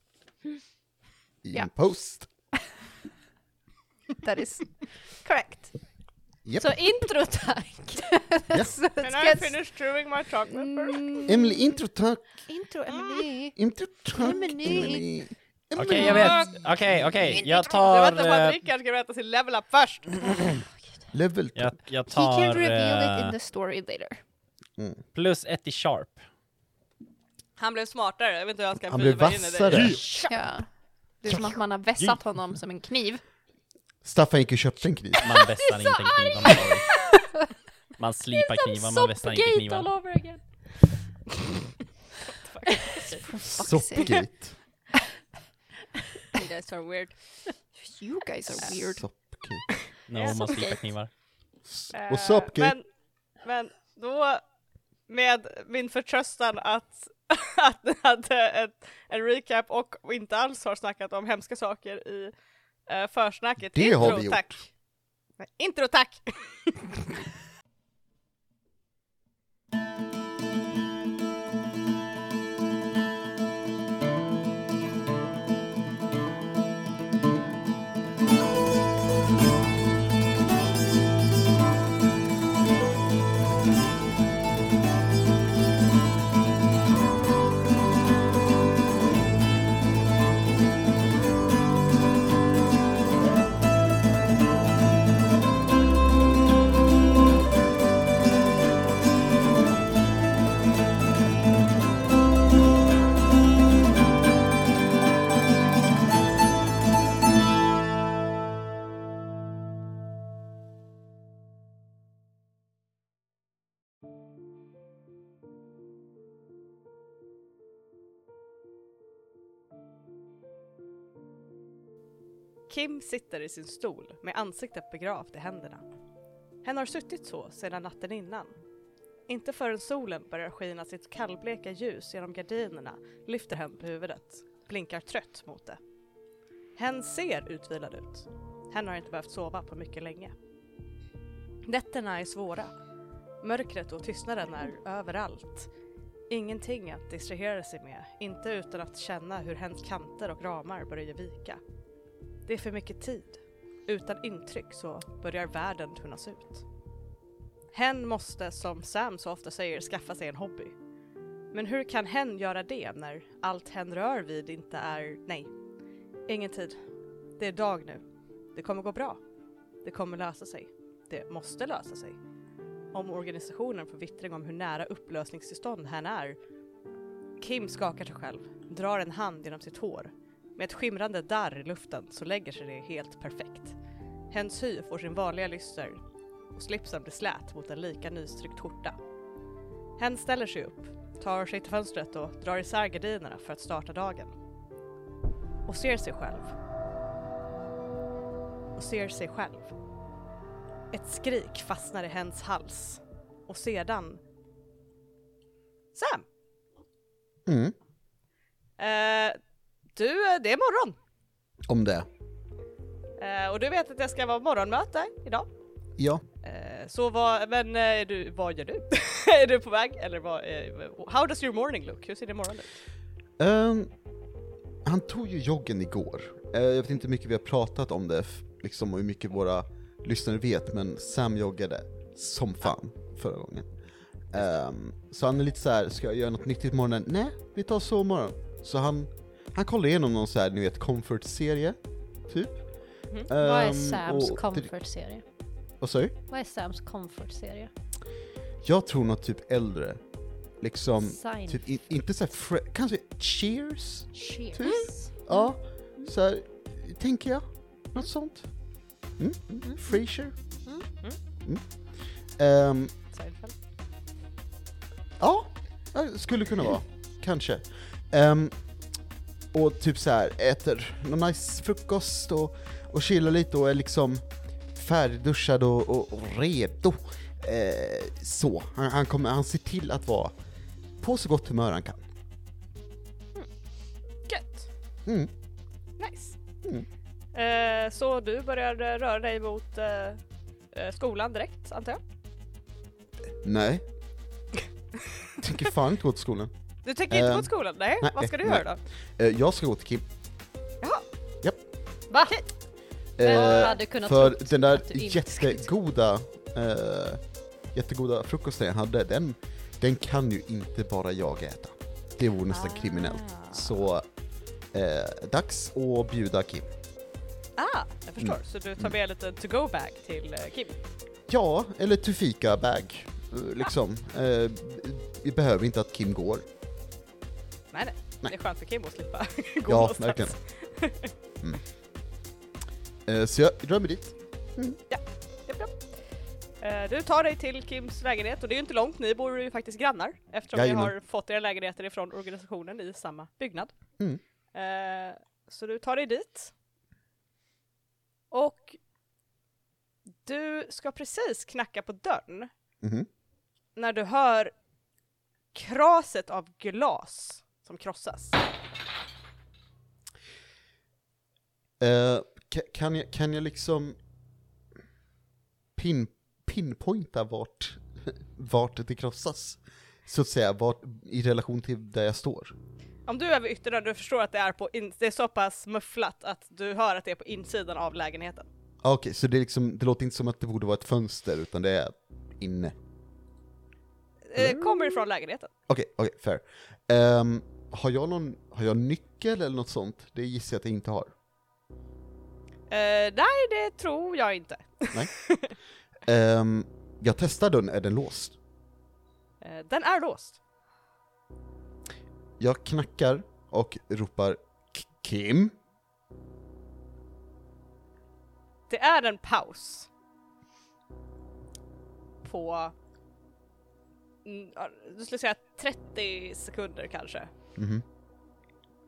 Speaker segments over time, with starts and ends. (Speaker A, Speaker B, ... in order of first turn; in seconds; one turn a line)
Speaker A: 1.4-2.3
Speaker B: 4.2-5.7
Speaker A: 6.5-6.7
Speaker C: 6.5-8.1
Speaker B: 8.0-9.6
Speaker D: 9.0-11.2
Speaker B: 10.5-11.8
Speaker A: 11.3-12.3
Speaker B: 12.5-13.6
Speaker A: 13.6-16.3
Speaker B: 14.1-15.1
Speaker E: 15.8-18.6
Speaker D: 15.9-16.7
Speaker C: 16.1-16.4
Speaker D: 17.5-20.3
Speaker A: 21.1-21.8
Speaker E: 21.5-23.4
Speaker B: 22.1-24.2
Speaker A: 24.8-25.0
Speaker E: 25.1-26.2
Speaker D: 27.6-30.1
Speaker A: 28.9-30.1
Speaker E: 29.7-30.0
Speaker B: 30.3-33.2
Speaker A: 34.0-35.3
Speaker E: 35.2-37.2
Speaker C: 35.8-37.2
Speaker E: 38.0-39.9
Speaker C: 38.3-41.1
Speaker D: 42.3-43.3
Speaker B: 43.2-44.3
Speaker A: 43.5-44.6
Speaker D: 46.3-47.2
Speaker B: 47.8-49.3
Speaker A: 48.9-49.7
Speaker E: 50.1-51.1
Speaker D: 50.1-50.8
Speaker C: 50.4-50.7
Speaker A: 51.6-52.8
Speaker D: 51.9-54.4
Speaker D: 55.1-62.3
Speaker D: 62.9-64.7
Speaker A: 63.6-64.6
Speaker D: 65.4-67.0
Speaker D: 122.7-125.8
Speaker D: 126.6-128.6
Speaker D: 129.3-135.8
Speaker D: 136.8-140.3
Speaker D: 141.7-142.7
Speaker D: 143.4-145.7
Speaker D: 146.3-151.6
Speaker D: 152.5-156.7
Speaker D: 157.7-160.8
Speaker D: 161.5-165.5
Speaker D: 166.3-166.8
Speaker D: 167.4-169.2
Speaker D: 169.8-172.2
Speaker D: 172.9-176.4
Speaker D: 177.4-183.8
Speaker D: 184.3-189.0
Speaker D: 190.0-194.3
Speaker D: 195.7-196.6
Speaker D: 198.8-199.8
Speaker D: 200.9-204.2
Speaker D: 205.9-206.2
Speaker A: 207.5-207.8
Speaker D: 208.8-209.4
Speaker D: 209.9-211.0
Speaker A: 211.7-212.1
Speaker D: 213.2-215.5
Speaker A: 216.0-216.2
Speaker D: 216.4-222.8
Speaker A: 223.4-223.9
Speaker A: 224.8-233.7
Speaker A: 234.3-244.7
Speaker C: 243.3-245.2
Speaker A: 245.8-246.1
Speaker C: 246.3-247.7
Speaker A: 248.6-250.0
Speaker A: 250.6-260.6
Speaker C: 251.0-251.6
Speaker C: 254.1-255.2
Speaker A: 261.4-262.9
Speaker D: 263.1-263.6
Speaker A: 265.2-268.6
Speaker A: 269.5-280.4
Speaker A: 281.0-282.0
Speaker D: 284.3-284.7
Speaker A: 285.1-285.3
Speaker D: 286.0-286.4
Speaker D: 287.3-290.2
Speaker D: 290.7-292.0
Speaker A: 293.4-293.8
Speaker A: 295.4-296.5
Speaker D: 296.8-298.8
Speaker A: 297.1-300.1
Speaker C: 302.1-302.4
Speaker A: 303.2-314.1
Speaker C: 303.2-305.7
Speaker D: 303.3-303.8
Speaker D: 312.5-313.9
Speaker A: 314.7-316.7
Speaker D: 317.6-320.8
Speaker A: 318.2-318.9
Speaker A: 321.3-326.4
Speaker D: 327.7-331.1
Speaker A: 329.7-330.4
Speaker A: 333.1-334.8
Speaker D: 334.9-336.0
Speaker D: 336.6-343.7
Speaker A: 340.5-340.9
Speaker D: 344.5-346.5
Speaker D: 348.3-348.8
Speaker D: 350.2-352.5
Speaker A: 352.8-353.1
Speaker D: 353.8-354.5
Speaker D: 355.5-358.4
Speaker A: 361.8-364.0
Speaker A: 365.8-372.5
Speaker D: 373.1-378.5
Speaker A: 378.8-382.8
Speaker D: 384.3-385.5
Speaker A: 384.4-384.9
Speaker A: 385.7-391.1
Speaker D: 392.7-395.5
Speaker A: 396.1-398.4
Speaker D: 399.4-400.4
Speaker A: 402.4-405.6
Speaker D: 408.7-409.9
Speaker D: 412.2-412.8
Speaker D: 414.2-417.3
Speaker A: 417.6-417.8